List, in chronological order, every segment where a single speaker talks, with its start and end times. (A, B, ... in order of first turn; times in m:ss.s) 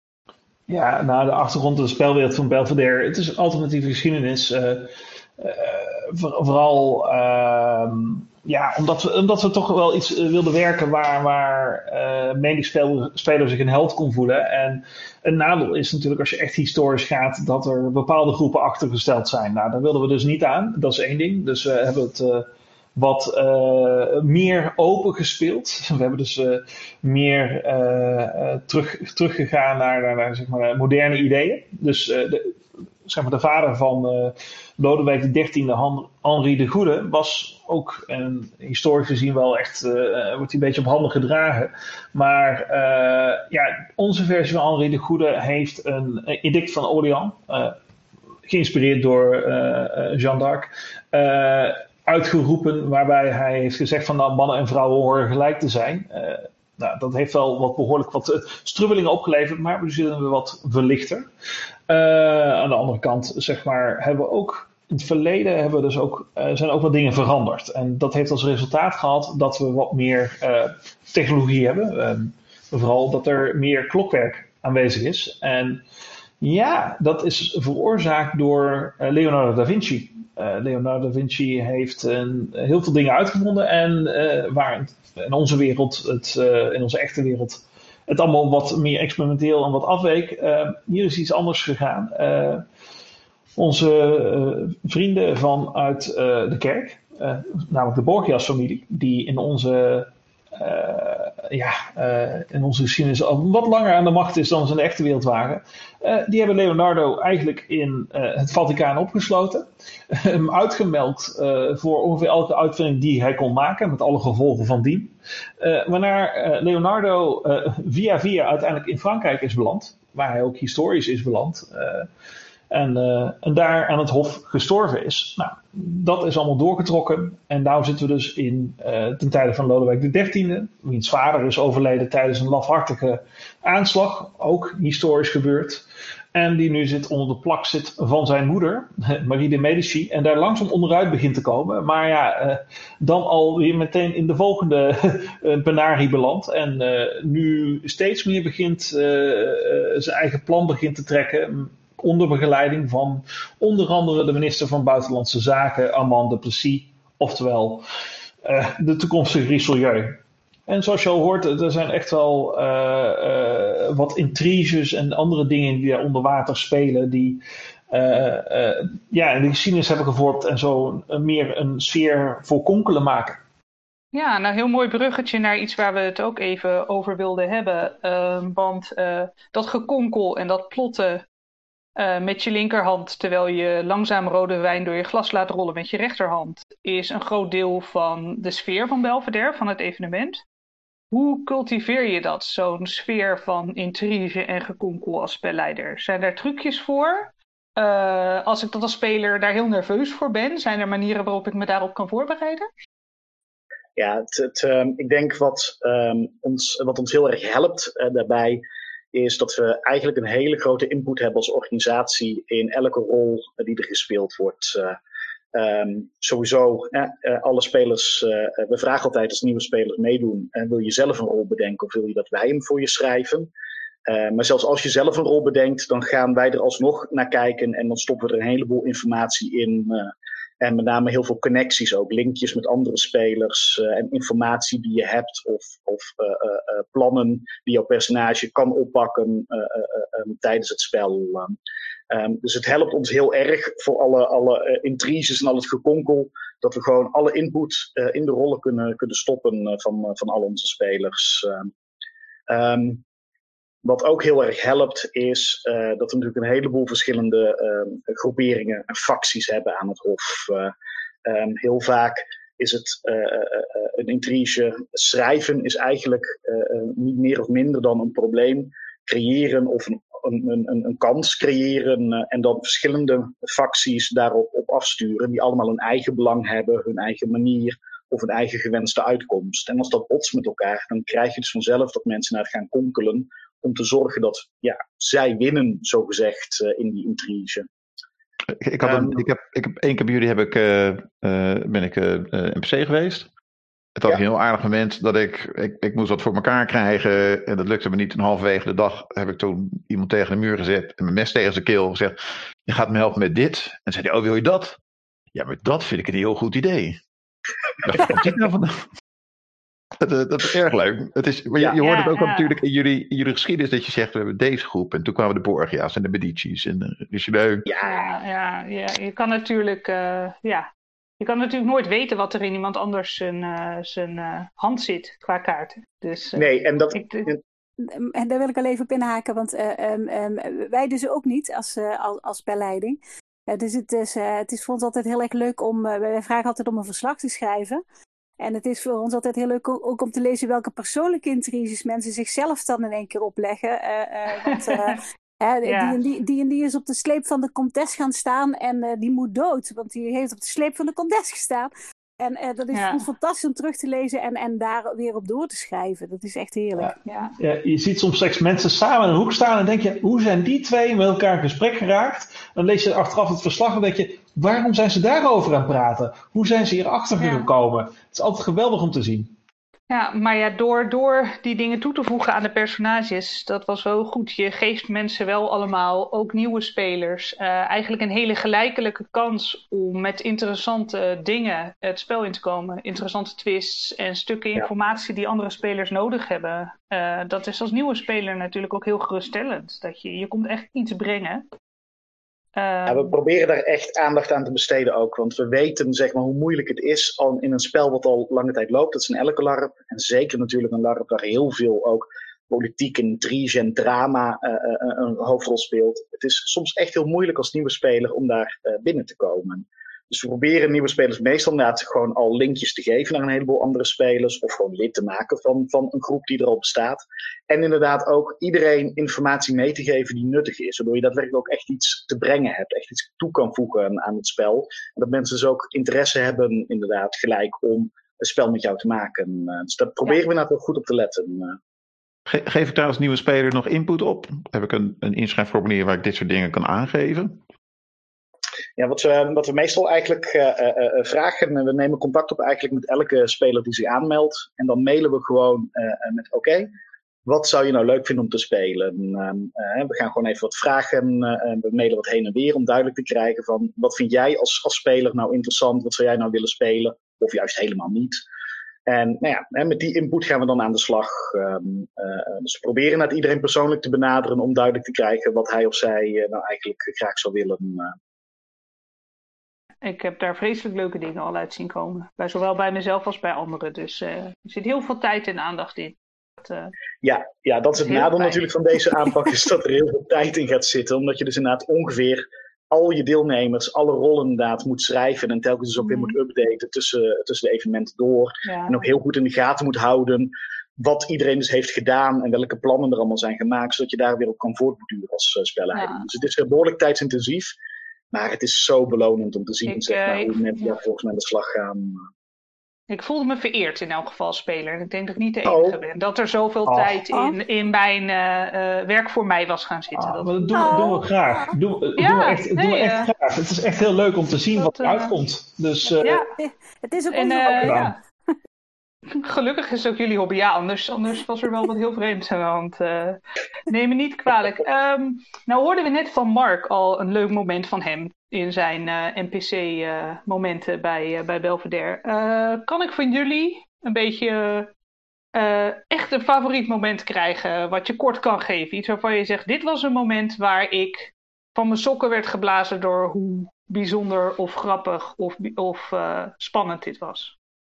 0:00.7-0:47.8 A
0:48.4-1:01.3 A
1:01.9-1:15.8 A
1:16.4-1:32.6 A
1:33.6-2:02.1 A
2:02.7-2:37.8 A
2:38.4-2:53.4 A
2:54.1-3:01.2 B
3:02.0-3:10.4 B
3:11.1-3:22.7 B
3:24.0-3:28.6 C
3:29.1-3:35.0 C
3:35.5-3:43.5 C
3:44.1-4:01.6 C
4:02.1-4:11.7 C
4:12.5-4:13.0 C
4:13.8-4:20.7 C
4:21.2-4:47.7 C
4:48.6-4:53.3 D
4:48.8-4:49.2 C
4:54.0-5:02.2 D
5:02.7-5:04.8 D
5:05.3-5:07.0 D
5:07.8-5:08.8 D
5:10.0-5:17.6 D
5:11.8-5:12.5 B
5:17.7-5:18.1 C
5:17.8-5:20.7 B
5:21.2-5:27.3 B
5:26.3-5:27.4 C
5:27.8-5:37.8 E
5:38.4-5:56.9 E
5:44.4-5:45.0 B
5:45.6-5:46.0 B
5:52.7-5:53.0 B
5:56.8-6:09.3 A
5:57.0-5:57.4 B
6:07.2-6:07.5 B
6:09.9-6:31.4 B
6:32.5-6:33.1 B
6:32.9-7:11.6 C
7:12.3-7:17.4 D
7:18.8-7:26.7 C
7:27.2-7:38.2 C
7:38.9-7:47.9 C
7:49.8-7:56.7 B
7:57.0-8:17.5 C
7:57.8-7:58.4 B
8:05.8-8:06.2 B
8:08.4-8:08.9 B
8:15.7-8:16.0 B
8:18.1-8:22.0 C
8:19.6-8:20.8 B
8:22.9-8:31.0 B
8:25.4-8:25.8 C
8:26.7-8:27.0 A
8:29.9-8:36.2 A
8:30.5-8:31.5 E
8:32.0-8:33.1 B
8:34.5-8:35.2 B
8:36.0-8:36.3 B
8:36.0-8:37.9 E
8:37.1-8:38.0 B
8:37.5-8:37.9 A
8:39.1-8:54.7 B
8:55.3-9:07.3 B